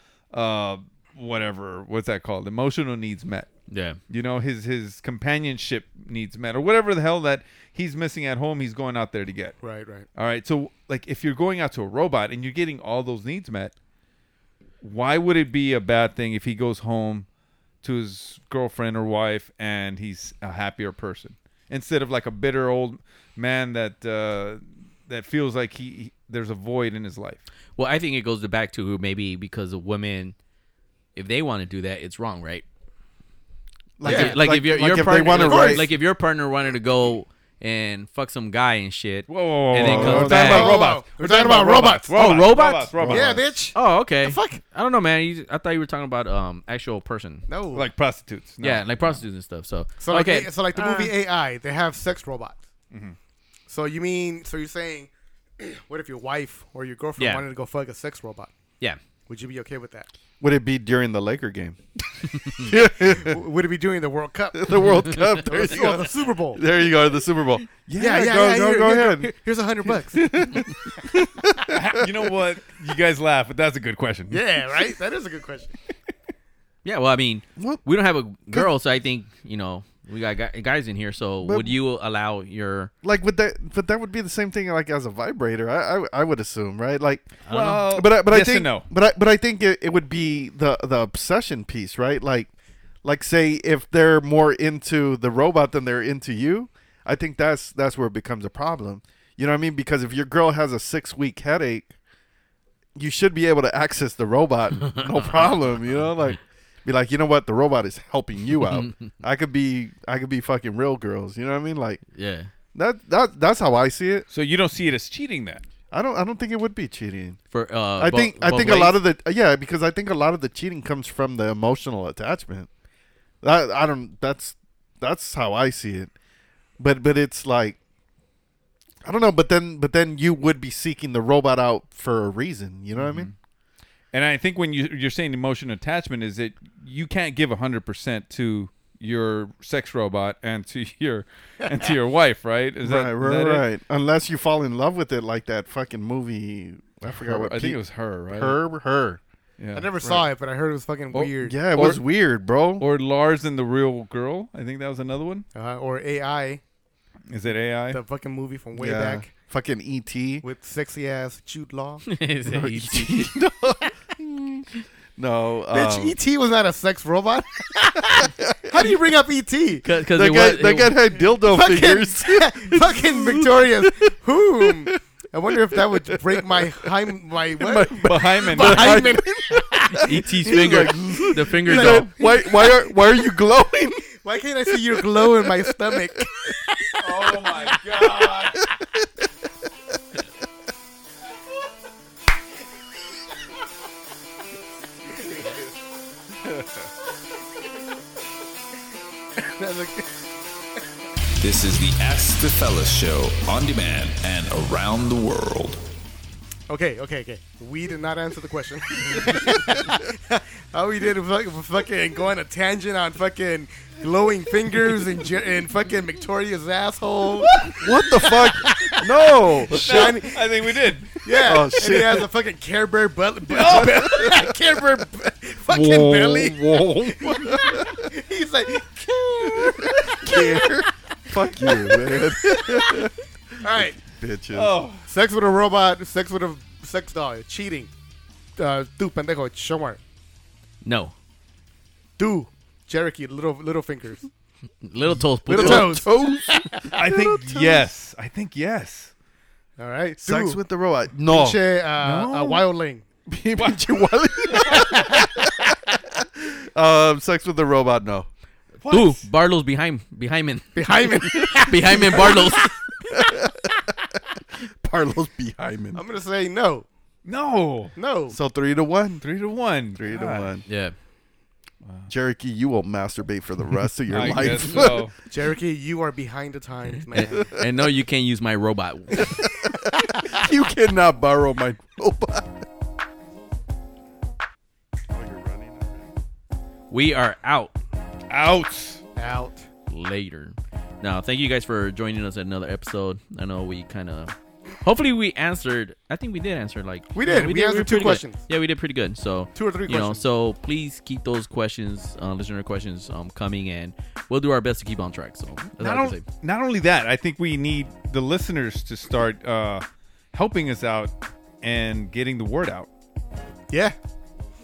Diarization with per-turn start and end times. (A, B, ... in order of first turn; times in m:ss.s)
0:00.3-0:03.5 A
0:03.7-0:04.0 B
0:04.1-0:09.6 A
0:09.6-0:10.1 C
0:10.2-0:13.7 A
0:14.8-0:17.3 A
0:17.8-0:27.4 A
0:27.8-0:30.4 B
0:31.2-0:32.6 B
0:34.0-0:35.9 D
0:34.0-0:40.7 B
0:34.0-0:34.4 C
0:35.3-0:35.9 C
0:39.3-0:43.4 A
0:39.8-0:40.7 D
0:40.0-0:42.3 C
0:42.1-0:42.9 B
0:43.0-0:43.4 D
0:43.1-0:44.6 C
0:43.7-0:47.5 B
0:47.5-0:47.9 C
0:47.7-0:49.2 A
0:48.6-0:51.1 B
0:50.0-0:52.6 C
0:53.7-0:58.5 C
0:57.2-0:57.5 B
0:59.3-1:00.1 C
1:00.4-1:01.8 D
1:02.4-1:03.4 D
1:02.7-1:06.6 C
1:04.6-1:12.1 D
1:08.0-1:10.4 C
1:11.7-1:14.8 A
1:14.3-1:15.7 C
1:16.8-1:22.9 B
1:17.6-1:17.8 D
1:21.4-1:21.8 D
1:23.0-1:32.5 D
1:27.4-1:27.9 B
1:27.5-1:28.9 A
1:33.0-1:41.9 D
1:43.0-1:52.0 D
1:48.7-1:49.0 B
1:52.1-1:52.5 B
1:52.7-1:54.3 D
1:54.3-1:55.6 A
1:55.9-1:57.4 D
1:57.5-1:59.0 B
1:58.0-2:02.7 D
2:03.4-2:06.1 D
2:06.8-2:07.8 D
2:09.0-2:13.3 D
2:13.0-2:13.4 A
2:14.1-2:23.6 A
2:22.8-2:29.2 D
2:27.1-2:28.6 A
2:29.6-2:29.9 A
2:29.7-2:31.6 C
2:31.1-2:32.0 A
2:31.4-2:32.8 D
2:32.8-2:35.4 A
2:35.6-2:36.6 C
2:37.3-2:38.0 A
2:37.9-2:39.3 C
2:38.8-2:40.4 D
2:40.4-2:42.0 C
2:42.1-2:43.3 B
2:42.5-2:46.2 D
2:45.7-2:49.9 C
2:48.1-2:49.0 D
2:49.8-2:51.0 B
2:50.1-2:54.1 D
2:51.4-3:00.1 C
2:54.6-2:54.9 D
2:55.5-2:56.9 D
2:57.6-3:04.1 D
2:58.0-2:59.1 A
3:00.0-3:02.1 B
3:01.6-3:02.9 C
3:04.2-3:07.4 C
3:04.7-3:06.3 D
3:07.0-3:08.7 A
3:08.5-3:09.0 D
3:19.4-3:20.2 C
3:21.4-3:25.8 E
3:26.7-3:40.5 C
3:37.5-3:37.8 A
3:37.7-3:40.2 D
3:39.7-3:41.2 A
3:41.2-3:50.8 C
3:41.3-3:42.3 D
3:43.5-3:44.5 A
3:43.7-3:44.3 D
3:45.7-3:47.3 A
3:47.1-3:48.0 D
3:49.5-3:53.1 D
3:51.6-3:53.0 C
3:53.6-3:54.0 C
3:53.7-3:54.8 D
3:54.5-3:55.0 A
3:55.1-3:57.9 C
3:58.6-4:00.0 C
4:00.8-4:01.1 B
4:02.2-4:04.3 C
4:04.8-4:06.0 B
4:05.5-4:07.9 D
4:05.5-4:06.9 C
4:06.9-4:09.1 A
4:09.8-4:10.6 C
4:10.2-4:11.6 D
4:11.3-4:13.0 C
4:12.0-4:12.6 A
4:13.3-4:15.7 D
4:14.5-4:14.8 A
4:14.6-4:15.3 C
4:16.4-4:18.3 D
4:18.8-4:19.2 A
4:18.9-4:22.7 B
4:20.8-4:22.7 C
4:21.8-4:22.5 D
4:23.1-4:23.7 D
4:24.6-4:26.0 D
4:26.0-4:26.9 C
4:27.2-4:28.0 A
4:28.0-4:28.4 C
4:28.3-4:29.2 D
4:29.2-4:30.6 A
4:30.0-4:30.7 D
4:30.7-4:30.9 B
4:31.8-4:32.1 A
4:32.1-4:35.1 D
4:34.1-4:35.1 A
4:35.3-4:37.5 C
4:37.1-4:39.4 B
4:39.3-4:42.6 D
4:40.0-4:40.3 C
4:45.1-4:46.1 D
4:46.9-4:47.8 B
4:48.3-4:49.0 A
4:49.2-4:49.7 C
4:49.9-5:06.2 B
4:57.1-4:58.4 C
4:59.6-5:00.2 C
5:05.8-5:12.9 A
5:13.7-5:14.0 C